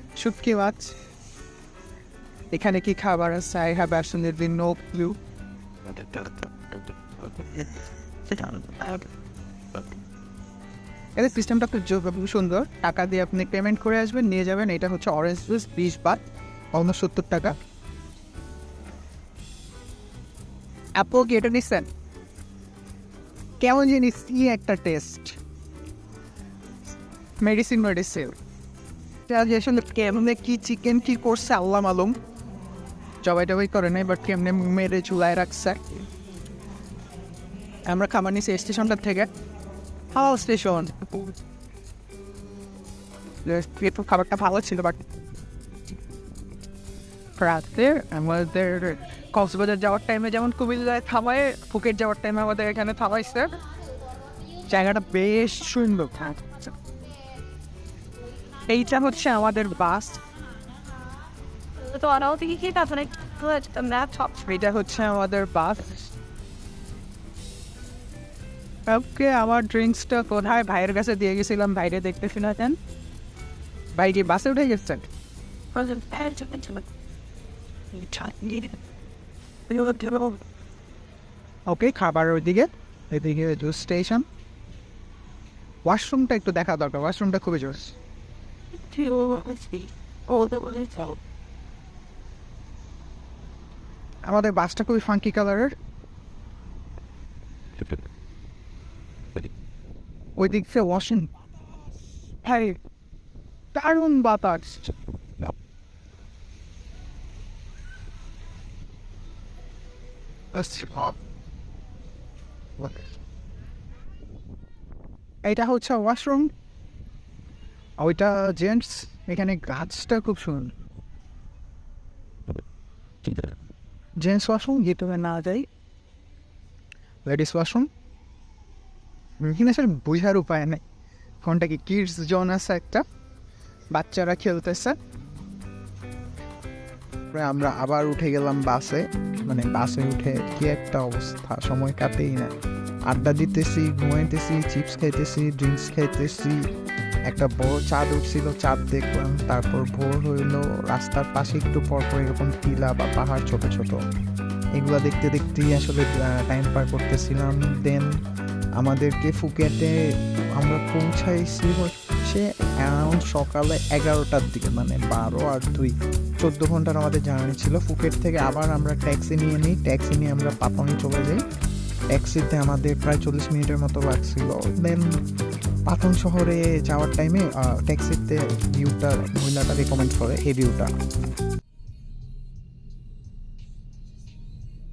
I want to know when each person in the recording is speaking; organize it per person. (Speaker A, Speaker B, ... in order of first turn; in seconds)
Speaker A: 0.1-0.9, 2.5-5.2, 8.3-8.7, 11.2-16.2, 16.8-17.6, 21.0-21.9, 23.6-25.4, 27.4-28.4, 29.3-32.2, 33.2-36.1, 37.9-39.3, 40.1-41.3, 43.4-45.1, 47.4-53.6, 54.7-56.5, 58.7-60.2, 64.0-66.1, 68.9-72.8, 74.0-75.1, 81.7-84.3, 85.8-88.0, 94.2-95.7, 100.4-101.3, 102.4-102.8, 103.7-104.9, 110.5-111.2, 115.5-116.5, 118.0-120.7, 124.2-125.7, 127.3-127.9, 129.4-130.8, 131.4-133.0, 133.9-135.0
Speaker B: 61.8-64.2, 75.7-76.9, 77.9-78.8, 79.7-80.4, 88.8-91.2
Speaker C: 137.3-142.5, 143.1-146.6, 147.3-154.0, 154.8-158.1, 158.8-160.0, 160.6-171.4, 172.1-175.1, 175.9-180.9